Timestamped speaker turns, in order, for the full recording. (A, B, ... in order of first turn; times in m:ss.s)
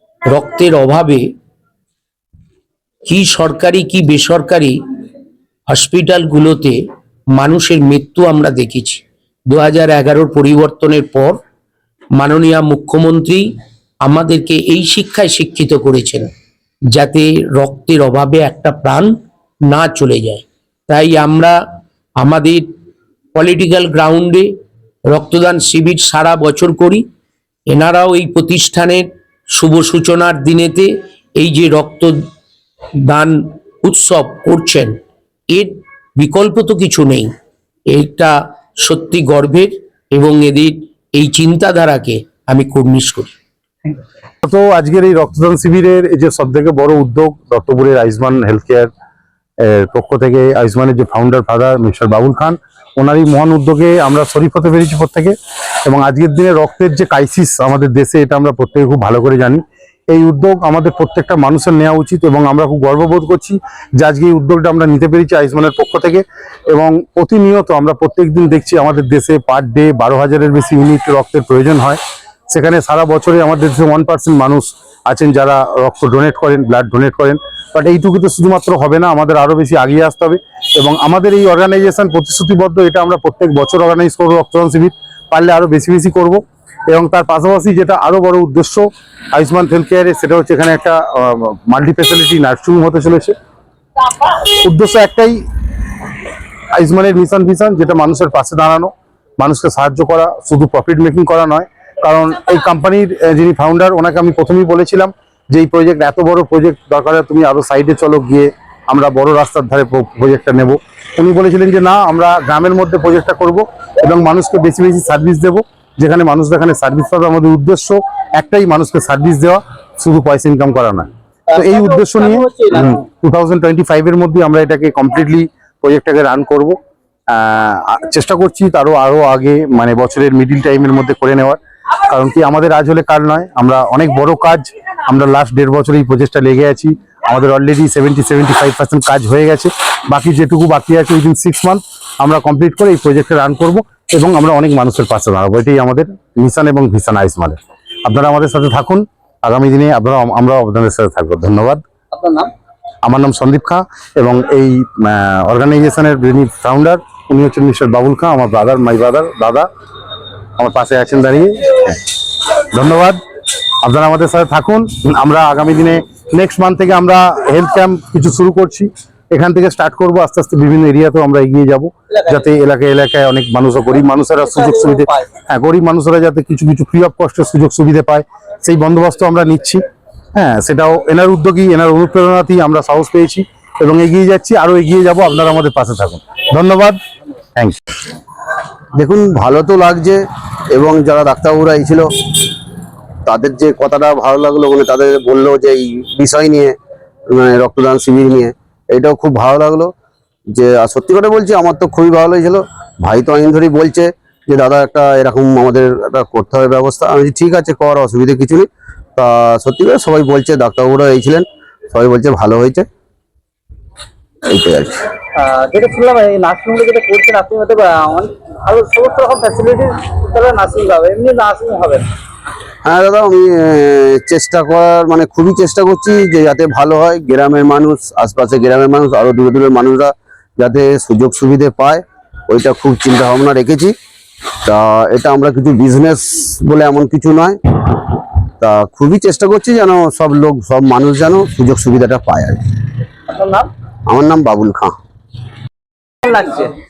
0:00.3-0:01.2 A
0:03.0-0:04.7 A
0:05.7-0:06.8 A
0:07.3-0:11.4 A
0:12.2-0:13.5 A
0:14.0-0:16.3 A
0:16.9-0:19.1 A
0:19.7-0:21.6 A
0:22.2-0:22.7 A
0:23.3-0:24.5 A
0:25.1-0:27.0 A
0:27.7-0:32.2 A
0:33.0-0:35.0 A
0:35.5-0:37.3 A
0:37.9-0:43.3 A
0:44.4-0:48.9 B
0:49.6-0:55.3 B
0:55.8-1:12.0 B
1:12.5-1:33.3 B
1:34.6-1:35.4 B
1:36.8-2:06.8 B
2:01.5-2:02.8 C
2:07.3-2:31.8 B
2:32.1-2:32.5 C
2:33.0-2:39.7 B
2:40.6-2:42.0 B
2:42.7-2:43.2 B
2:43.8-2:59.8 B
2:52.2-2:52.4 C
2:54.4-2:55.3 C
3:00.3-3:07.0 B
3:08.9-3:12.1 D
3:13.2-3:16.8 D
3:17.3-3:19.9 D
3:20.5-3:32.9 D
3:34.5-3:35.0 D
3:35.4-3:42.0 C
3:42.8-3:53.9 D
3:54.6-3:57.6 D
3:58.6-4:02.6 D
4:03.3-4:03.7 C
4:04.0-4:05.0 D
4:06.3-4:06.7 C